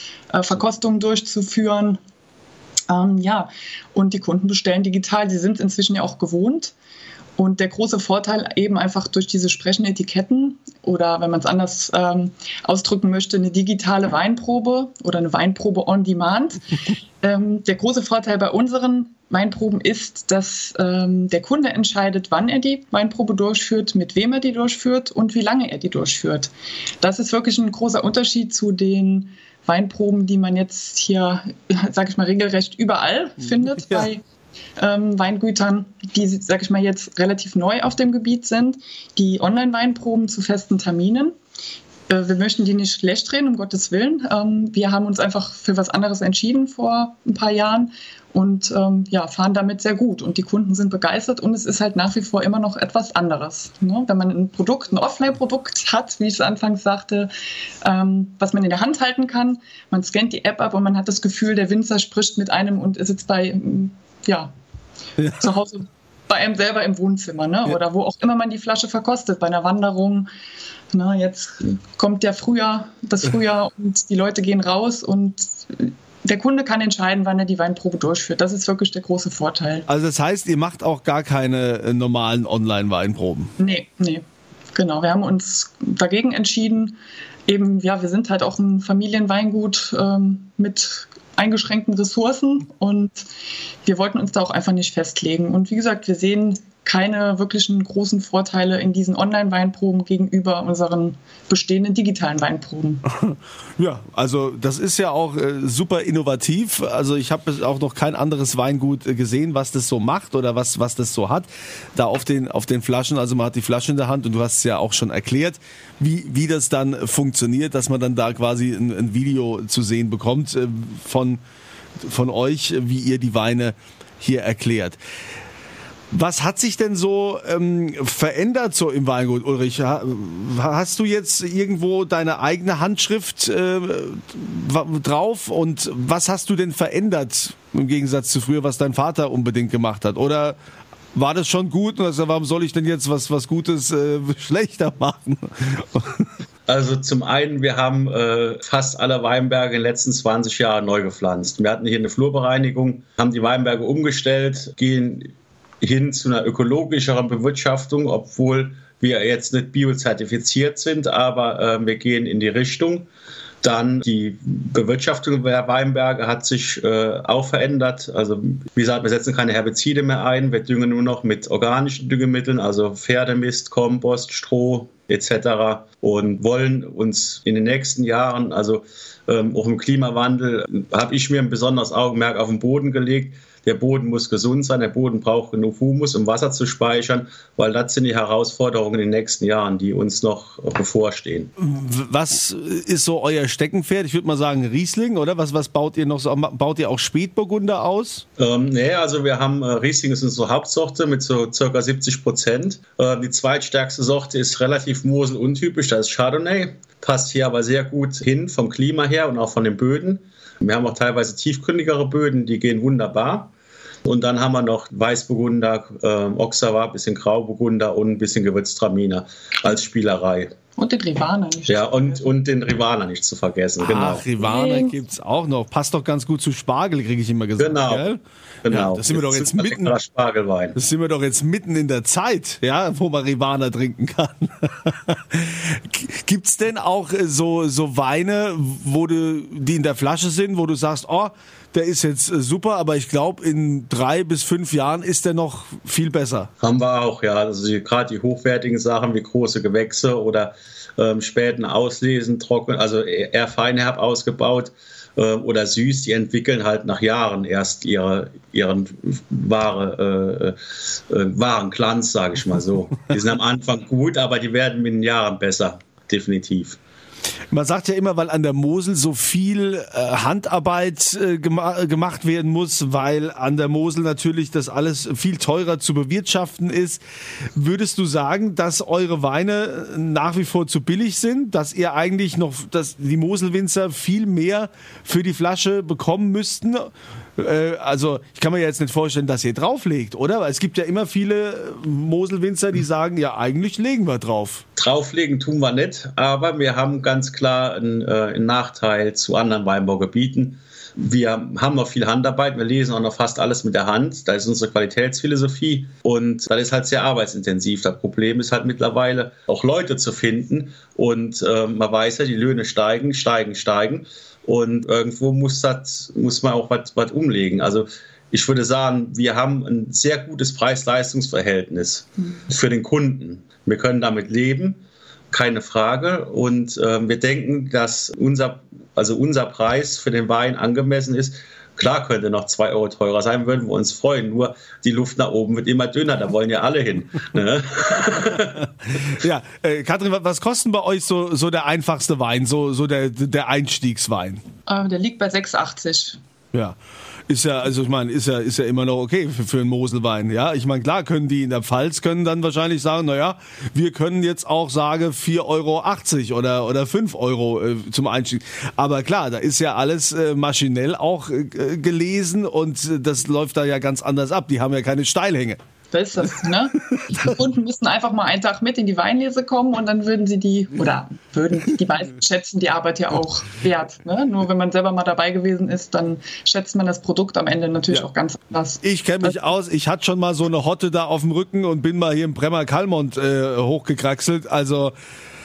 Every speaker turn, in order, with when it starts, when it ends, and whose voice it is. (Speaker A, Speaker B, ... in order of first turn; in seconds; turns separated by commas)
Speaker A: 0.3-2.0, Speaker A: 2.9-6.7, Speaker A: 7.4-16.6, Speaker A: 17.2-34.2, Speaker A: 34.8-41.4, Speaker A: 42.1-57.3, Speaker A: 57.8-64.5, Speaker A: 65.3-70.3, Speaker A: 70.9-79.9, Speaker B: 79.9-83.5, Speaker A: 83.6-84.2, Speaker A: 84.7-87.0, Speaker A: 87.5-93.2, Speaker A: 93.8-103.0, Speaker B: 103.2-121.4, Speaker B: 122.0-125.0, Speaker B: 126.1-140.6, Speaker B: 141.2-146.3, Speaker C: 146.7-163.1, Speaker C: 163.6-191.5, Speaker B: 191.6-198.2, Speaker C: 198.4-213.5, Speaker C: 214.1-220.5, Speaker A: 220.8-222.2, Speaker C: 221.7-224.3, Speaker B: 223.8-229.9, Speaker A: 224.4-224.9, Speaker C: 227.6-228.1, Speaker C: 228.7-230.8, Speaker B: 230.8-246.5, Speaker C: 246.6-260.6, Speaker C: 261.1-266.8, Speaker B: 267.5-277.0, Speaker B: 277.6-294.6, Speaker C: 294.8-324.8, Speaker C: 325.3-338.6, Speaker B: 338.8-344.4, Speaker A: 344.7-346.2, Speaker B: 347.3-365.6, Speaker A: 365.9-379.4, Speaker B: 378.8-384.9